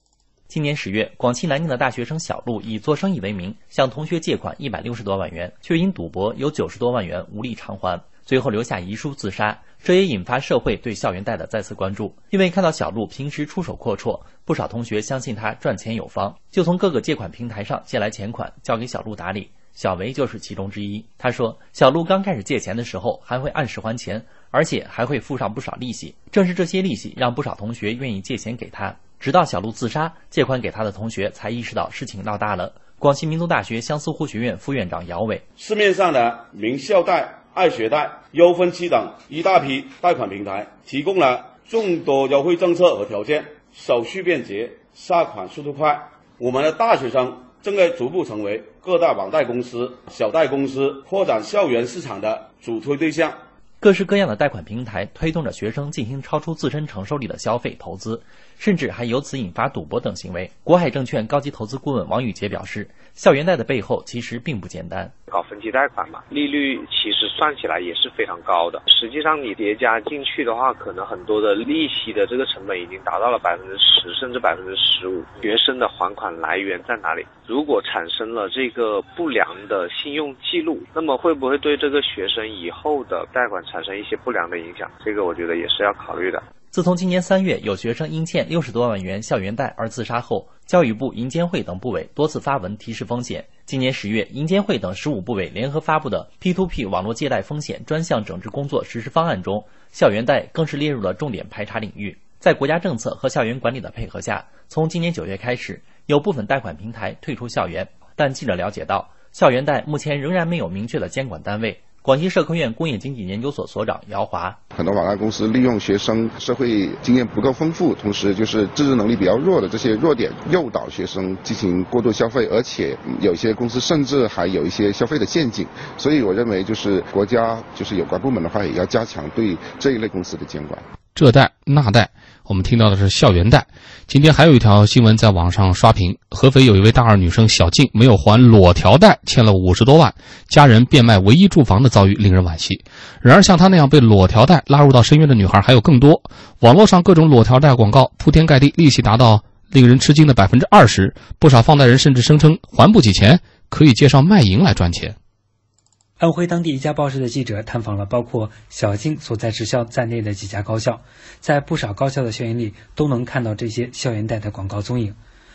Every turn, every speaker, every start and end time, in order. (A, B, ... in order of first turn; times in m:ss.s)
0:00.5-0:35.4 A
0:35.6-0:53.4 B
0:53.8-1:05.2 A
1:05.3-1:26.4 C
1:26.7-1:54.6 A
1:54.7-2:10.8 D
2:11.2-2:35.2 E
2:36.2-2:45.2 F